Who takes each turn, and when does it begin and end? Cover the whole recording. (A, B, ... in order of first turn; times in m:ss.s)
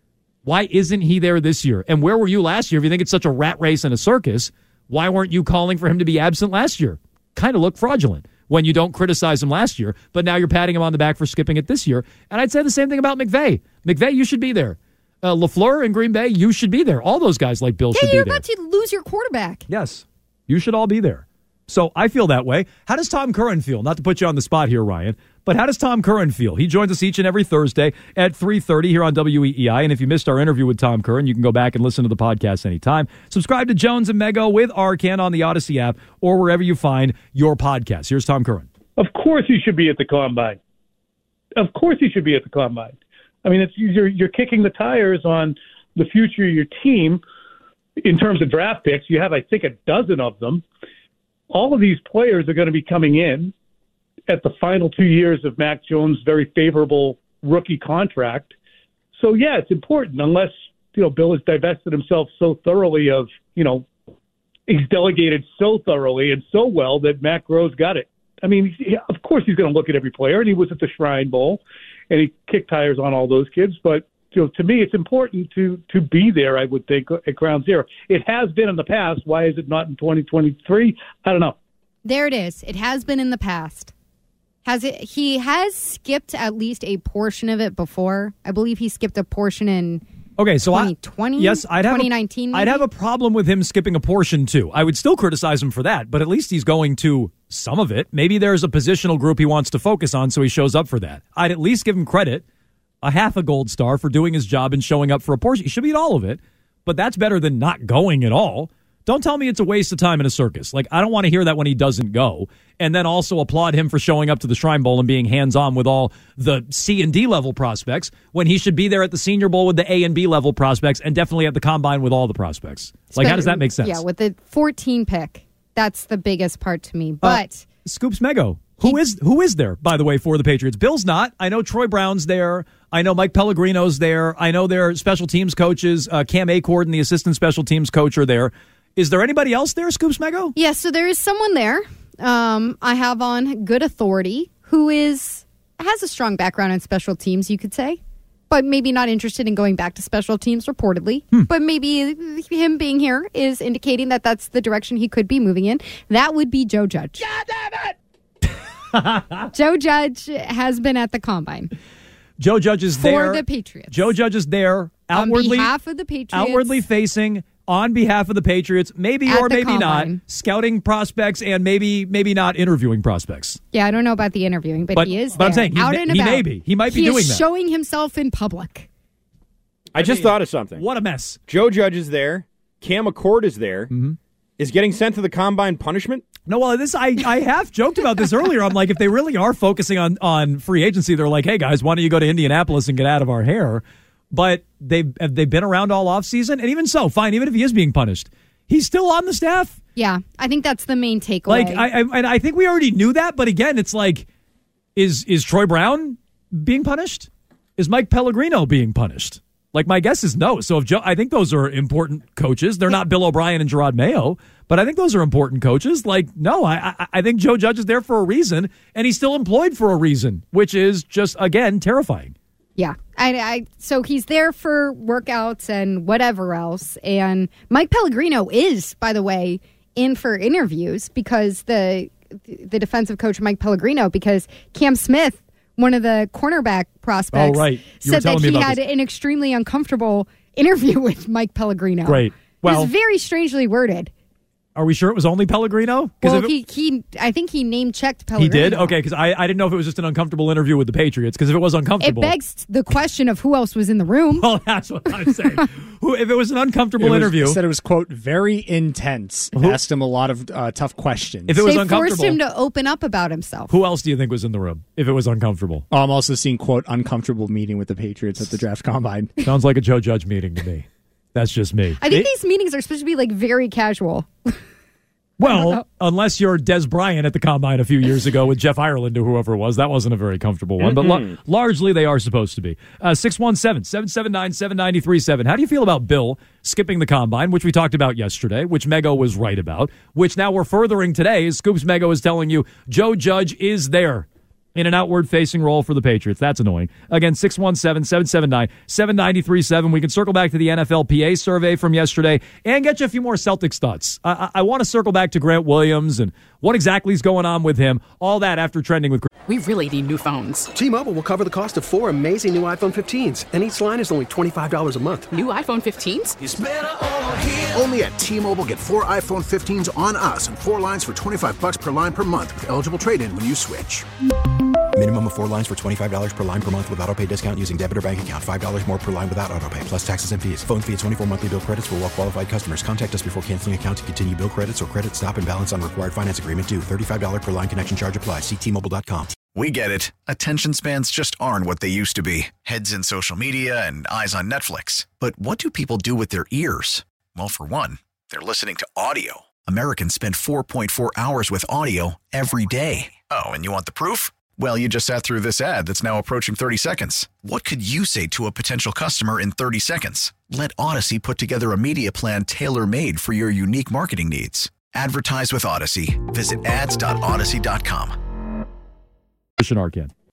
0:00.4-0:18.4 A
0:17.9-0:19.7 B
0:19.7-0:38.7 A
0:39.0-0:40.6 C
0:41.6-0:47.2 C
0:48.0-0:50.6 C
0:51.5-0:53.5 C
0:54.3-0:58.5 C
0:59.2-1:03.9 C
1:04.7-1:21.6 C
1:22.0-1:23.9 B
1:24.6-1:30.0 B
1:30.4-1:42.4 A
1:30.7-1:32.8 B
1:43.0-2:04.0 A
2:03.1-2:07.6 B
2:07.2-2:20.5 A
2:20.6-2:37.3 B
2:38.9-2:39.5 A
2:39.5-2:41.7 B
2:42.4-2:45.7 A
2:43.0-2:44.1 B
2:45.1-2:46.7 B
2:46.3-2:53.6 A
2:49.3-2:50.2 B
2:53.7-2:58.9 B
2:55.0-2:57.4 A
3:00.0-3:00.8 D
3:00.0-3:01.4 A
3:01.5-3:03.9 D
3:03.9-3:04.2 A
3:04.6-3:06.3 D
3:06.5-3:19.8 A
3:20.0-3:21.8 B
3:21.5-3:24.3 A
3:25.0-3:42.3 A
3:42.8-4:04.1 B
3:57.3-3:58.8 A
4:02.1-4:02.9 A
4:04.8-4:06.5 A
4:06.2-4:09.0 B
4:08.4-4:12.3 A
4:12.0-4:14.5 B
4:14.4-4:17.6 A
4:17.0-4:21.6 E
4:21.5-4:22.4 A
4:21.6-4:23.7 B
4:23.7-4:25.9 A
4:25.9-4:29.4 E
4:29.4-4:32.3 A
4:32.0-4:34.6 B
4:35.4-5:09.3 A
4:35.5-4:35.8 B
4:40.8-4:41.4 D
5:09.5-5:10.7 F
5:10.7-5:15.3 G
5:15.3-5:16.4 F
5:17.7-5:24.0 H
5:25.0-5:39.4 I
5:39.5-6:08.2 J
6:09.6-6:10.1 A